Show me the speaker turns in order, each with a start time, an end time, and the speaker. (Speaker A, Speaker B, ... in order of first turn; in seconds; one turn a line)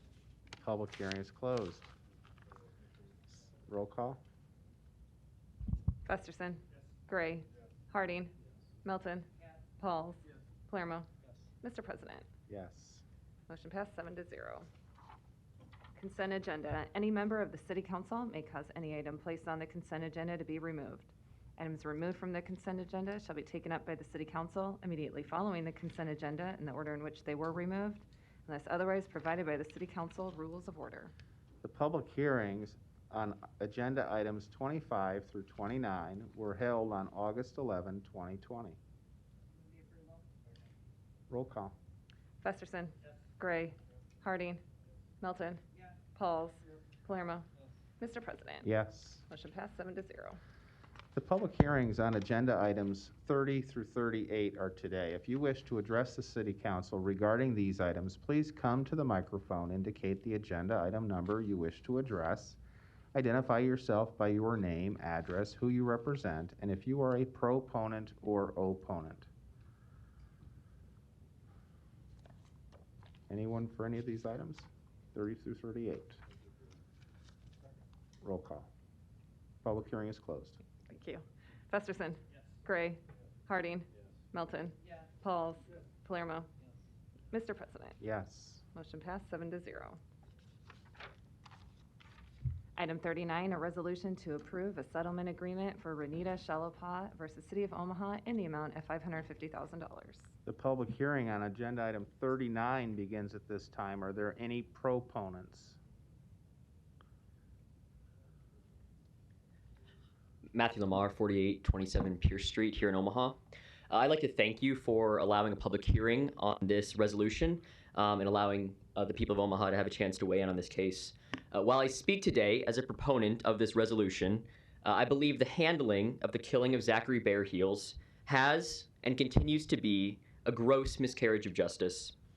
Speaker A: 0.6-1.9
Speaker A: 3.6-4.2
Speaker B: 6.0-11.1
Speaker B: 11.6-12.2
Speaker A: 12.5-13.0
Speaker B: 13.5-14.7
Speaker B: 15.9-31.1
Speaker A: 31.6-38.8
Speaker B: 39.8-40.1
Speaker A: 41.3-41.8
Speaker B: 42.4-44.6
Speaker B: 45.2-47.5
Speaker B: 48.0-48.7
Speaker A: 48.6-49.3
Speaker B: 49.3-50.4
Speaker A: 51.1-62.6
Speaker A: 63.1-69.3
Speaker A: 73.3-76.2
Speaker A: 78.2-78.7
Speaker A: 79.6-80.6
Speaker B: 80.9-86.5
Speaker B: 87.3-88.0
Speaker A: 88.0-88.6
Speaker B: 88.7-90.0
Speaker B: 92.8-100.3
Speaker A: 100.5-105.8
Speaker C: 110.5-113.4
Speaker C: 113.9-132.1